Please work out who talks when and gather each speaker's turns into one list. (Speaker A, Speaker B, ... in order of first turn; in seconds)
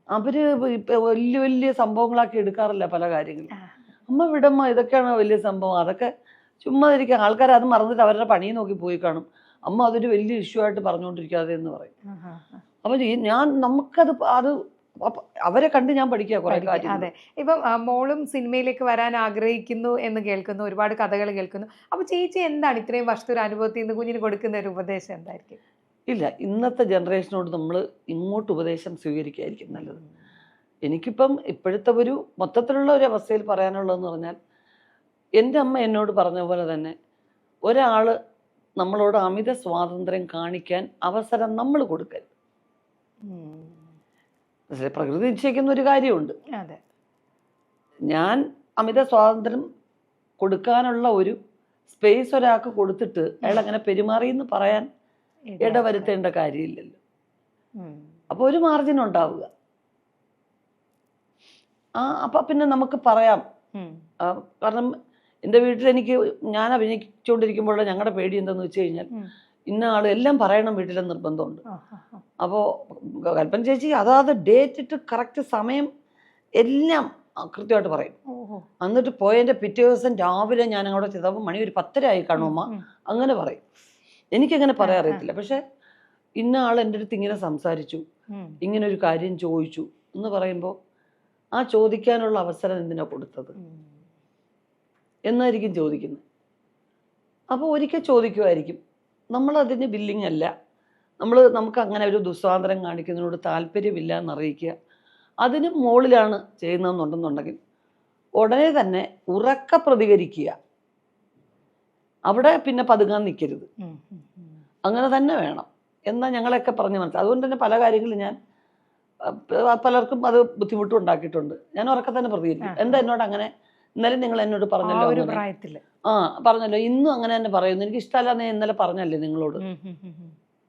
Speaker A: 0.1-3.5, 4.1-6.1, 6.6-11.9, 12.8-17.1, 26.1-30.0, 30.9-34.4, 35.4-36.9, 37.7-38.1, 38.8-42.3, 44.7-46.4, 48.1-49.6, 50.4-51.4, 51.9-54.9, 55.6-57.0, 58.3-59.5, 62.0-63.4, 64.2-64.9, 65.5-69.1, 69.7-71.6, 72.4-75.9, 76.6-78.2, 78.8-83.6, 84.3-85.6, 86.4-88.0, 88.6-90.7, 91.6-93.5, 95.3-96.2, 97.5-98.8, 99.3-100.5, 101.2-104.7, 105.4-107.6, 108.4-110.5, 112.3-113.7, 114.9-118.4, 119.3-125.4, 126.1-129.6
Speaker B: 12.1-12.6, 16.5-25.6, 43.3-43.9, 55.5-56.1, 57.8-58.1, 71.7-72.2, 78.3-78.7, 82.4-82.9, 84.8-85.2, 93.6-93.9, 113.8-114.6, 122.6-123.0, 124.8-125.8, 129.6-130.3